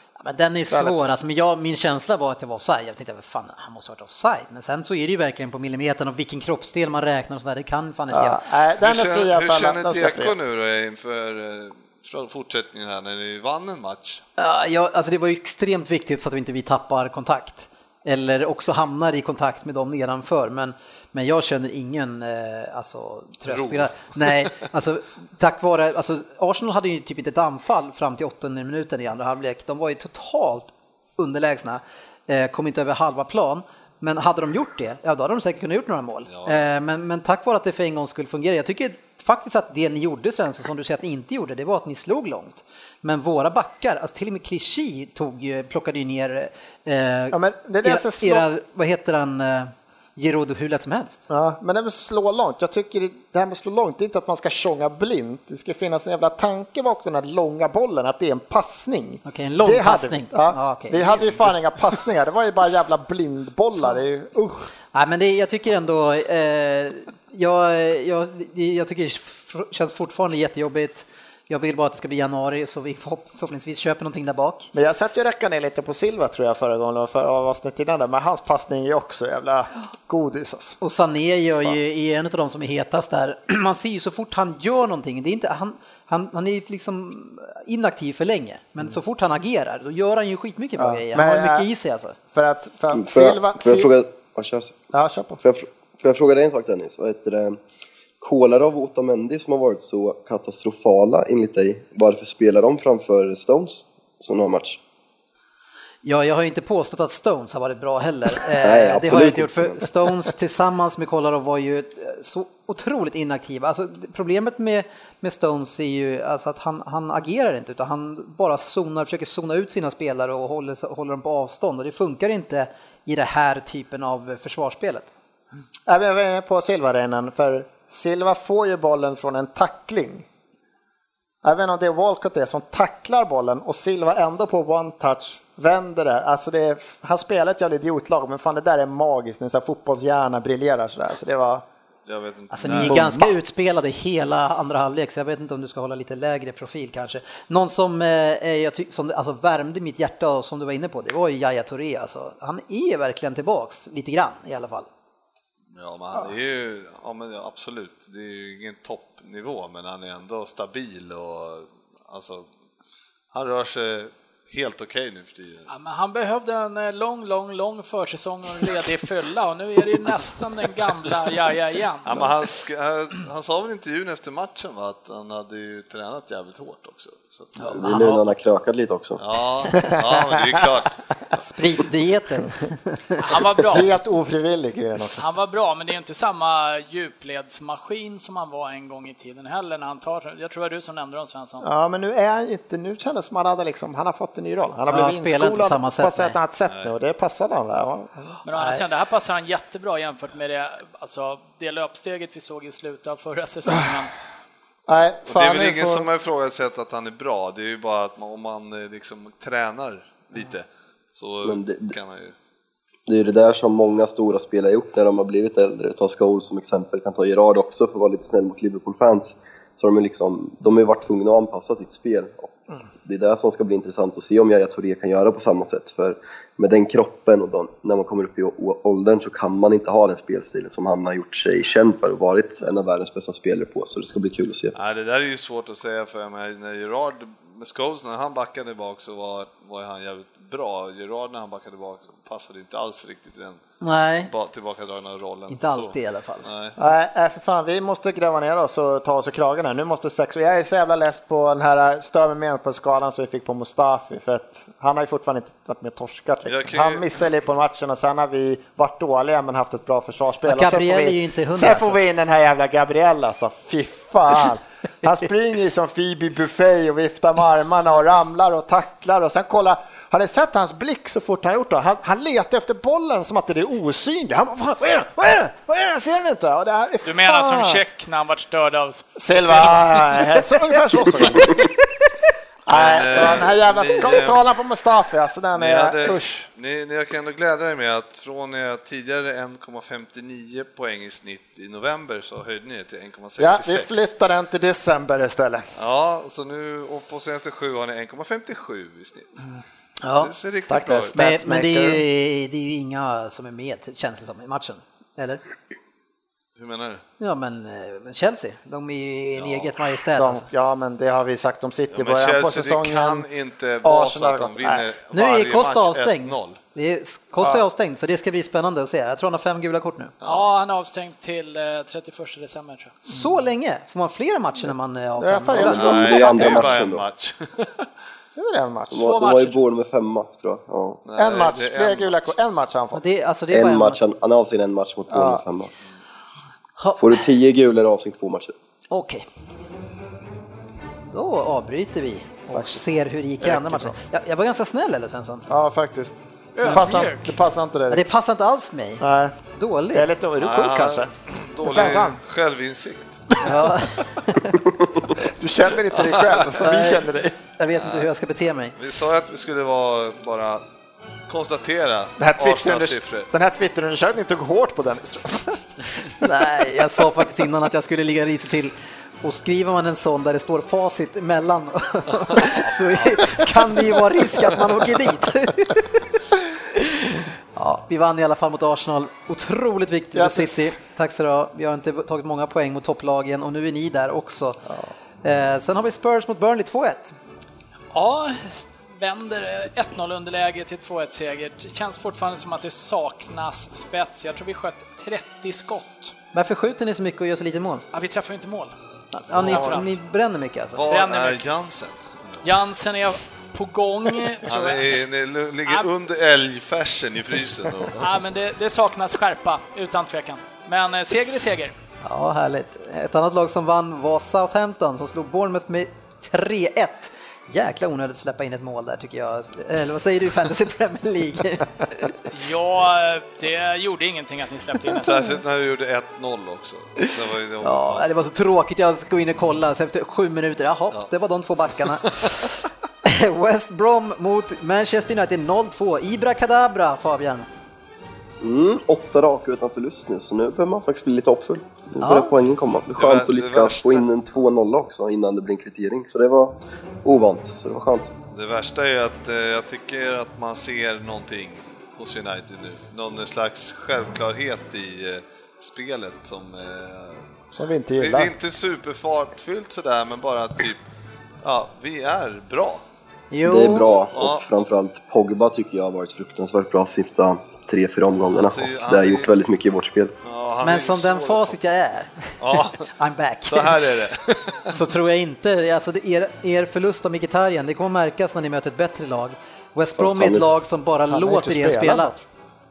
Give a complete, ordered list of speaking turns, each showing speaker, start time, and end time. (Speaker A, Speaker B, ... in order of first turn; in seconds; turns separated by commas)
Speaker A: 0.2-8.4, Speaker B: 0.7-1.0, Speaker B: 8.1-10.3, Speaker C: 8.8-14.2, Speaker A: 14.4-51.2, Speaker C: 23.4-24.5, Speaker C: 36.3-36.6, Speaker B: 47.3-48.5, Speaker B: 51.3-64.7, Speaker A: 59.2-61.5, Speaker A: 64.9-74.7, Speaker B: 74.7-80.8, Speaker A: 80.8-92.2, Speaker B: 90.8-91.7, Speaker B: 92.3-93.9, Speaker D: 92.9-94.8, Speaker B: 94.9-95.4, Speaker D: 95.4-97.6, Speaker D: 98.2-104.8, Speaker A: 106.0-125.1, Speaker D: 108.6-109.9, Speaker B: 125.9-130.3, Speaker B: 131.4-141.6, Speaker C: 142.1-143.2, Speaker A: 142.5-154.9, Speaker B: 142.8-143.3, Speaker C: 155.7-162.5, Speaker C: 163.3-165.7, Speaker E: 165.7-172.3, Speaker C: 172.0-177.8, Speaker A: 177.6-178.2, Speaker D: 177.7-179.2, Speaker C: 179.2-181.0, Speaker B: 179.8-180.7, Speaker A: 181.4-183.0, Speaker E: 183.2-183.9, Speaker B: 183.7-185.2, Speaker E: 185.2-191.7, Speaker B: 191.6-198.3, Speaker A: 194.9-196.4, Speaker E: 198.4-204.1, Speaker A: 198.5-198.8, Speaker B: 204.9-206.1, Speaker C: 205.3-212.3, Speaker D: 211.4-211.9, Speaker D: 213.1-234.7, Speaker C: 234.7-243.6, Speaker A: 243.8-244.3, Speaker C: 244.3-246.8, Speaker A: 245.5-246.5, Speaker B: 246.8-277.8, Speaker C: 256.4-257.0, Speaker A: 260.4-262.0, Speaker E: 277.0-280.3, Speaker B: 279.2-281.7, Speaker B: 282.7-286.5, Speaker C: 282.7-284.4, Speaker C: 285.6-294.1, Speaker B: 293.4-295.6, Speaker C: 295.8-299.4, Speaker A: 300.0-300.3, Speaker C: 300.1-301.1, Speaker B: 300.7-302.0, Speaker A: 301.1-305.4, Speaker C: 306.6-307.0, Speaker A: 307.2-310.4, Speaker C: 309.4-309.7, Speaker B: 310.1-313.3, Speaker C: 311.9-316.6, Speaker B: 313.8-314.9, Speaker A: 315.1-320.1, Speaker C: 320.2-320.5, Speaker E: 320.2-322.9, Speaker A: 323.1-326.6, Speaker B: 325.2-326.5, Speaker D: 325.6-327.0, Speaker C: 325.7-327.9, Speaker B: 328.4-329.2, Speaker D: 328.9-331.0, Speaker E: 329.0-329.6, Speaker C: 331.0-332.3, Speaker B: 331.2-333.0, Speaker A: 332.9-334.0, Speaker D: 333.5-335.7, Speaker B: 335.1-335.4, Speaker A: 336.8-337.2, Speaker D: 337.0-338.5, Speaker A: 338.9-339.2, Speaker A: 341.1-345.4, Speaker B: 342.5-342.8, Speaker B: 343.4-343.9, Speaker B: 345.5-348.1, Speaker E: 346.6-347.4, Speaker A: 346.6-346.9, Speaker A: 347.9-349.0, Speaker B: 349.0-349.4, Speaker A: 349.5-350.1, Speaker B: 349.9-351.1, Speaker C: 350.4-353.4, Speaker B: 351.6-352.2, Speaker A: 353.4-354.6, Speaker B: 355.1-357.4, Speaker C: 356.0-356.5, Speaker A: 356.6-358.7, Speaker C: 357.7-358.1, Speaker C: 358.8-360.6, Speaker C: 361.3-363.3, Speaker B: 362.2-365.6, Speaker A: 366.2-376.0, Speaker C: 372.5-373.3, Speaker A: 376.7-384.6, Speaker B: 380.1-380.7, Speaker A: 385.2-387.1, Speaker E: 387.9-396.1, Speaker A: 396.3-397.8, Speaker E: 397.9-398.7, Speaker A: 399.1-400.9, Speaker C: 399.3-399.9, Speaker E: 399.4-399.9, Speaker C: 400.7-402.5, Speaker E: 400.9-401.4, Speaker E: 402.4-404.9, Speaker C: 404.4-408.1, Speaker E: 407.9-411.7, Speaker A: 412.0-422.2, Speaker E: 422.3-425.3, Speaker C: 425.0-428.1, Speaker A: 427.0-437.5, Speaker C: 432.0-432.4, Speaker D: 438.4-448.1, Speaker A: 442.0-442.3, Speaker C: 442.9-444.1, Speaker C: 448.3-457.2, Speaker B: 457.5-458.3, Speaker C: 458.0-460.8, Speaker C: 461.4-462.8, Speaker A: 463.3-463.9, Speaker D: 463.4-470.1, Speaker C: 464.1-464.5, Speaker C: 468.3-469.3, Speaker C: 470.2-471.6, Speaker A: 470.6-473.9, Speaker C: 472.4-472.9, Speaker C: 473.5-474.8, Speaker A: 474.6-482.1, Speaker D: 480.0-480.4, Speaker B: 481.1-482.2